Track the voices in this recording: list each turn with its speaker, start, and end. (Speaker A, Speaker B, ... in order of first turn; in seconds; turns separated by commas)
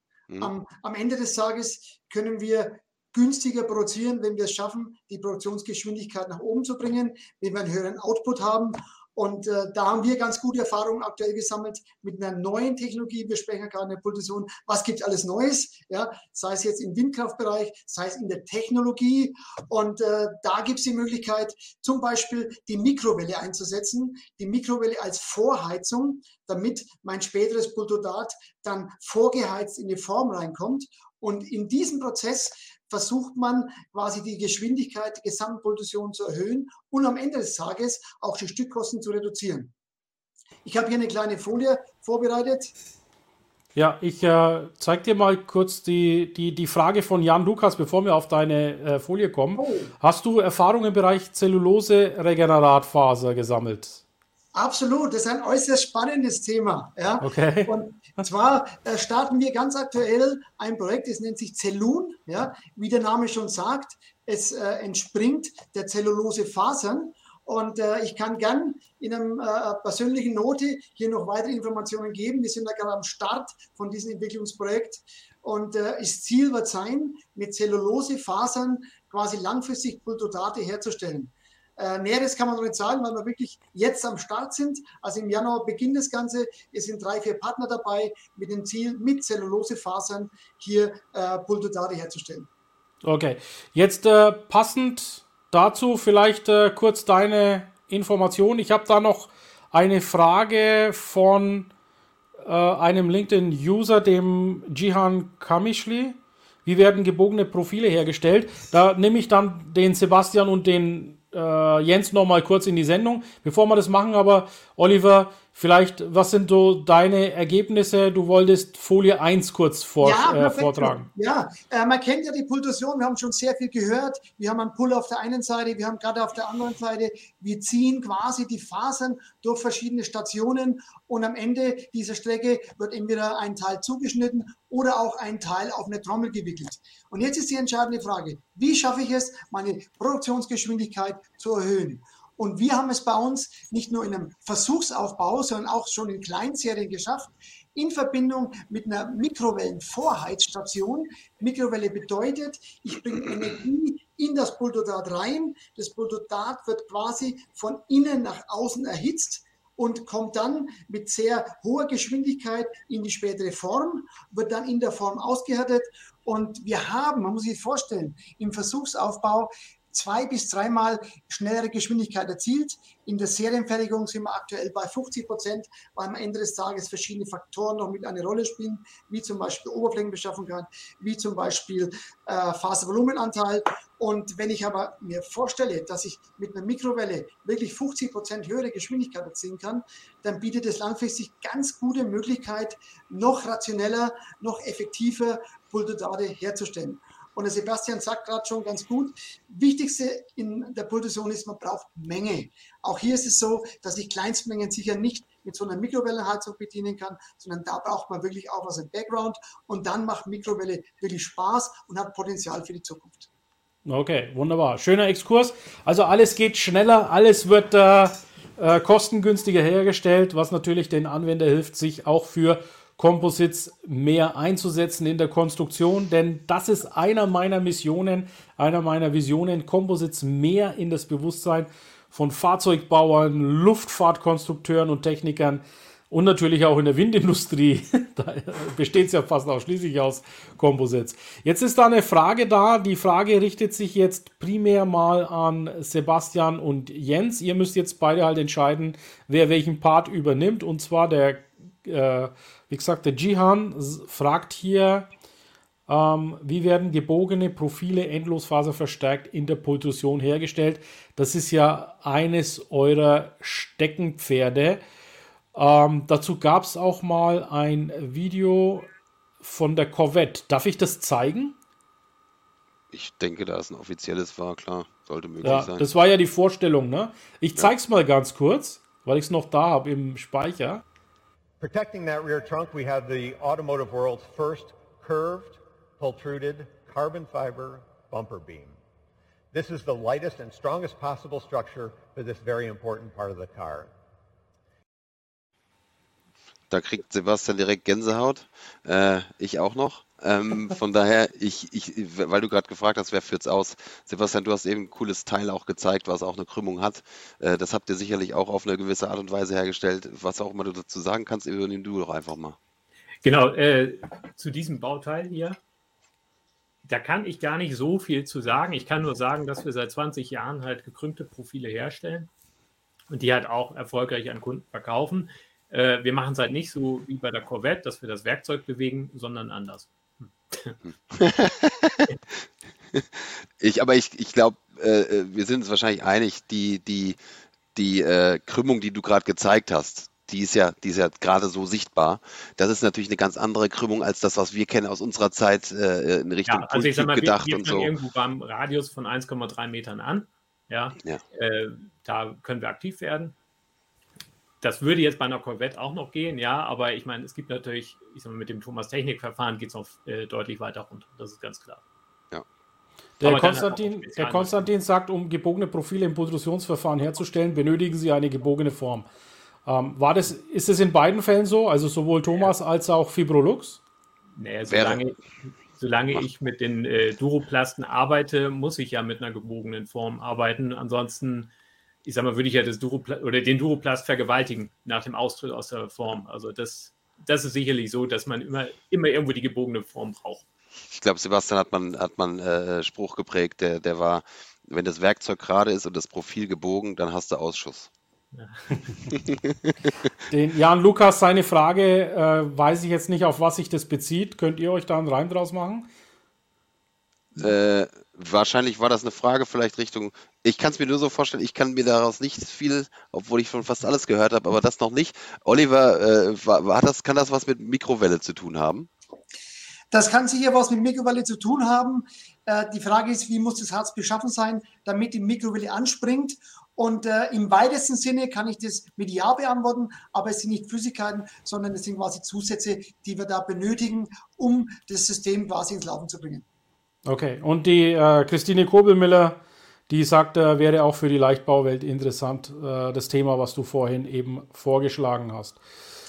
Speaker A: 0.4-39.7, Speaker A: 40.6-42.7, Speaker B: 43.8-54.0, Speaker A: 49.6-49.9, Speaker A: 54.5-92.5, Speaker B: 57.2-57.7, Speaker B: 93.0-101.7, Speaker B: 102.4-121.1, Speaker A: 120.0-213.3, Speaker B: 213.9-255.1, Speaker B: 255.9-264.8, Speaker B: 265.6-268.9, Speaker B: 269.4-271.6, Speaker C: 272.9-275.9, Speaker B: 275.4-280.8, Speaker D: 281.6-288.8, Speaker D: 289.5-293.9, Speaker C: 296.7-312.6, Speaker E: 313.2-315.6, Speaker E: 316.9-322.3, Speaker E: 323.1-329.9, Speaker E: 330.5-330.8, Speaker C: 330.9-332.1, Speaker C: 332.9-337.2, Speaker C: 337.8-347.9, Speaker E: 346.5-353.4, Speaker E: 354.6-361.8, Speaker B: 363.2-369.1, Speaker E: 363.2-364.6, Speaker B: 369.7-373.8, Speaker E: 374.4-381.5, Speaker C: 374.7-375.0, Speaker E: 382.1-390.5, Speaker C: 390.9-397.9, Speaker E: 398.3-398.8, Speaker C: 399.1-399.9, Speaker B: 400.3-405.9, Speaker C: 407.4-418.9, Speaker A: 419.9-436.4, Speaker B: 437.1-445.6